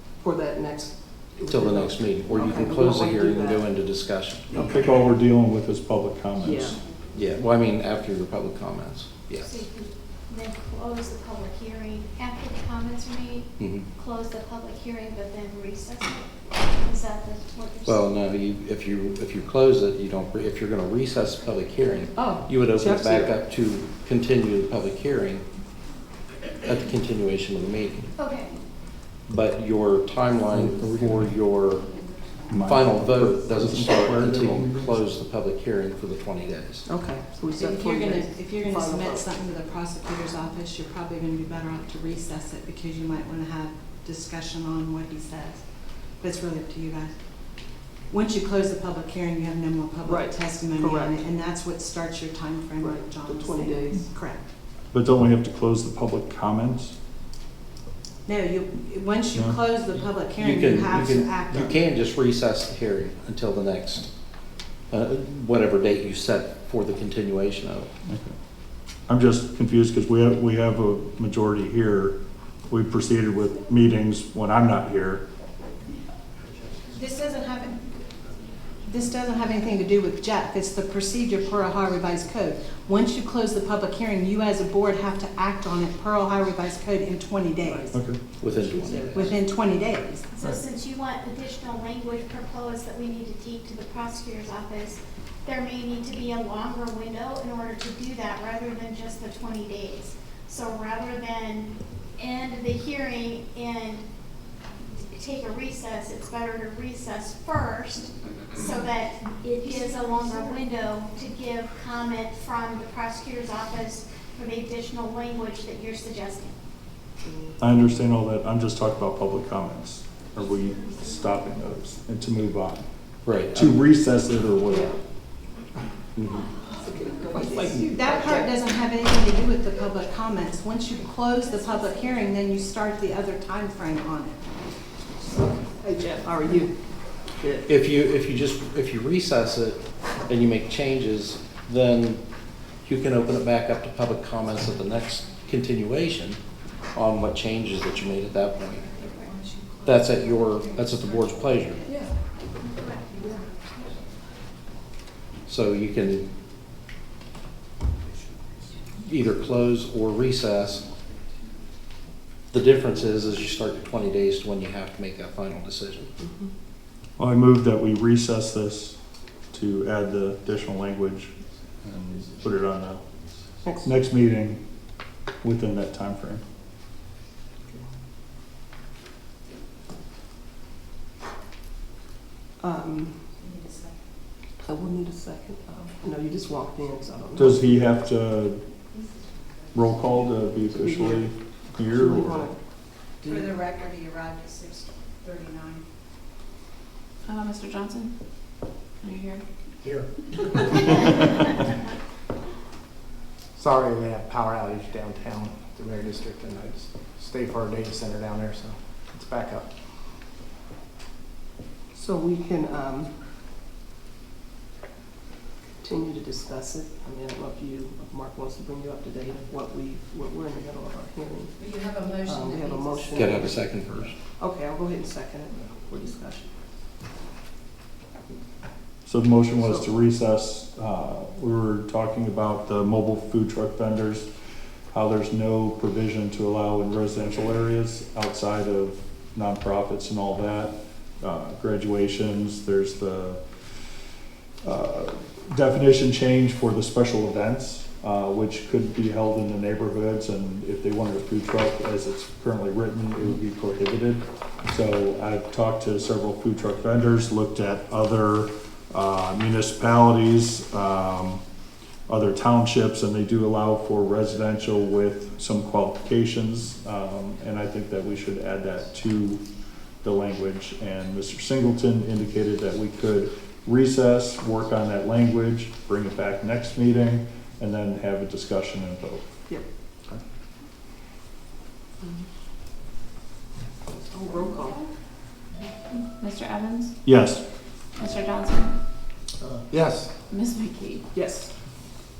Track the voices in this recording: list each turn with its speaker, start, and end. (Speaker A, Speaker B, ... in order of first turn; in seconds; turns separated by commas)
Speaker A: 0.2-3.8, Speaker B: 1.5-4.5, Speaker C: 4.5-6.8, Speaker A: 4.5-4.8, Speaker A: 6.4-6.8, Speaker B: 7.1-9.6, Speaker D: 9.4-18.1, Speaker B: 13.6-13.9, Speaker B: 17.9-25.4, Speaker A: 22.2-23.4, Speaker B: 26.6-28.1, Speaker D: 28.2-28.5, Speaker B: 29.3-31.9, Speaker C: 30.5-31.3, Speaker C: 32.5-35.1, Speaker B: 32.6-36.9, Speaker A: 36.9-39.3, Speaker E: 37.5-45.6, Speaker E: 46.2-47.1, Speaker E: 48.1-54.4, Speaker A: 50.0-51.3, Speaker A: 52.8-54.1, Speaker C: 54.9-56.9, Speaker E: 58.3-61.9, Speaker B: 60.4-64.1, Speaker B: 64.9-67.9, Speaker C: 68.1-68.3, Speaker C: 69.1-72.2, Speaker C: 72.7-75.2, Speaker E: 76.9-77.8, Speaker E: 78.8-88.0, Speaker A: 87.6-88.0, Speaker C: 87.9-88.2, Speaker B: 88.4-89.4, Speaker A: 88.6-89.3, Speaker E: 89.1-90.3, Speaker D: 90.3-104.0, Speaker D: 105.1-116.6, Speaker F: 109.6-110.6, Speaker C: 117.6-122.8, Speaker B: 123.2-123.8, Speaker C: 123.5-125.0, Speaker A: 124.7-125.0, Speaker B: 126.2-126.5, Speaker A: 126.8-128.5, Speaker E: 127.8-134.4, Speaker A: 135.8-136.8, Speaker A: 137.4-137.7, Speaker B: 137.7-142.2, Speaker B: 142.8-146.4, Speaker B: 146.9-148.9, Speaker E: 149.0-149.9, Speaker B: 149.8-151.8, Speaker E: 150.6-151.3, Speaker A: 151.9-152.1, Speaker E: 153.2-153.6, Speaker B: 155.5-156.3, Speaker B: 159.0-160.9, Speaker B: 162.5-166.1, Speaker C: 167.2-169.0, Speaker C: 169.5-173.1, Speaker A: 173.6-173.9, Speaker C: 173.8-174.6, Speaker C: 175.4-176.4, Speaker A: 182.6-183.3, Speaker E: 183.4-183.9, Speaker A: 184.6-187.8, Speaker C: 187.3-188.6, Speaker C: 189.7-192.5, Speaker A: 190.7-191.3, Speaker A: 191.9-192.6, Speaker A: 193.2-193.6, Speaker E: 193.2-195.8, Speaker F: 197.3-198.1, Speaker F: 199.0-199.4, Speaker G: 199.8-201.1, Speaker G: 203.6-209.7, Speaker A: 211.9-213.2, Speaker A: 215.8-221.6, Speaker E: 221.6-223.5, Speaker A: 222.2-223.5, Speaker B: 223.1-224.2, Speaker A: 224.4-226.5, Speaker C: 229.1-234.3, Speaker A: 229.6-229.9, Speaker C: 234.9-243.4, Speaker C: 244.6-261.4, Speaker C: 262.1-269.4, Speaker C: 270.0-279.2, Speaker A: 284.1-284.9, Speaker F: 286.2-286.9, Speaker C: 287.1-287.4, Speaker F: 288.0-288.7, Speaker G: 289.6-290.1, Speaker F: 290.3-291.0, Speaker A: 291.1-291.5